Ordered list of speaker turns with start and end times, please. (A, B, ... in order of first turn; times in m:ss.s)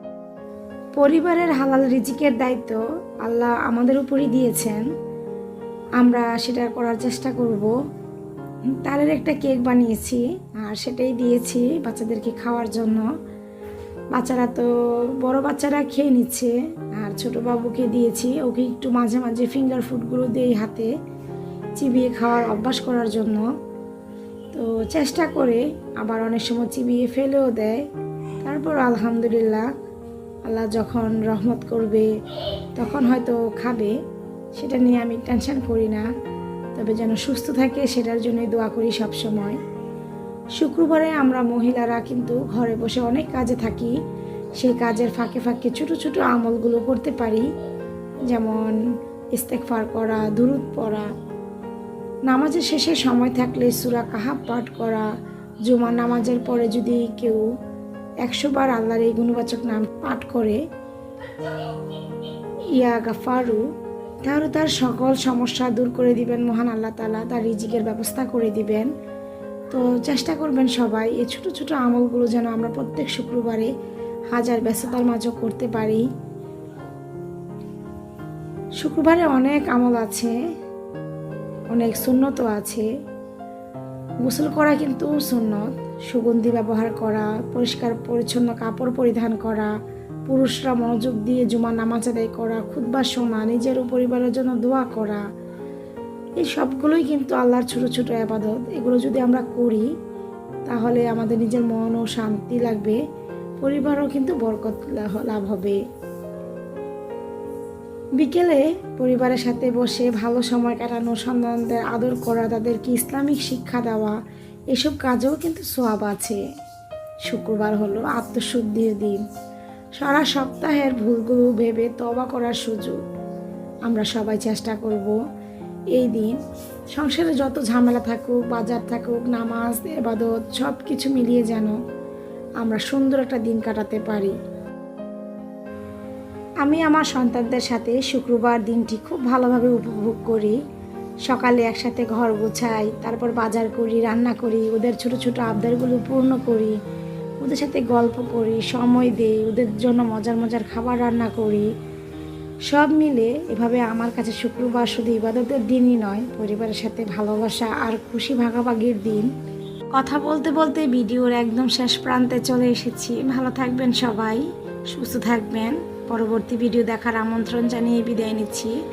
0:01.0-0:04.8 A
0:06.0-0:07.7 A
0:08.8-0:13.1 A
0:14.1-0:14.7 A
0:15.2-0:20.9 A
0:21.8-0:23.5 A
0:24.5-0:27.9 A
0:28.4-0:29.7 A
0:30.5-0:32.1 A
0:32.8-0:34.0 A
0:34.6-0:36.1 A
0:36.8-0:39.6 A
0:40.6-0:44.0 A
0:44.6-0:47.5 A
0:48.3-0:48.8 A
0:49.4-0:51.1 A
0:52.3-0:55.1 A
0:55.6-0:57.4 A
0:58.2-1:00.6 A
1:02.7-1:03.6 A
1:04.2-1:08.9 A
1:09.7-1:13.7 A
1:14.3-1:16.1 A
1:18.8-1:20.4 A
1:21.7-1:22.9 A
1:24.2-1:29.7 A
1:30.3-1:35.2 A
1:36.4-1:39.9 A
1:40.7-1:43.0 A
1:43.6-1:45.8 A
1:48.2-1:54.2 A
1:54.7-1:56.4 A
1:57.3-1:59.2 A
2:00.0-2:03.0 A
2:03.9-2:05.2 A
2:05.9-2:06.4 A
2:06.9-2:11.8 A
2:12.6-2:14.4 A
2:16.6-2:20.6 A
2:21.3-2:26.8 A
2:27.4-2:31.7 A
2:32.7-2:39.3 A
2:40.0-2:48.8 A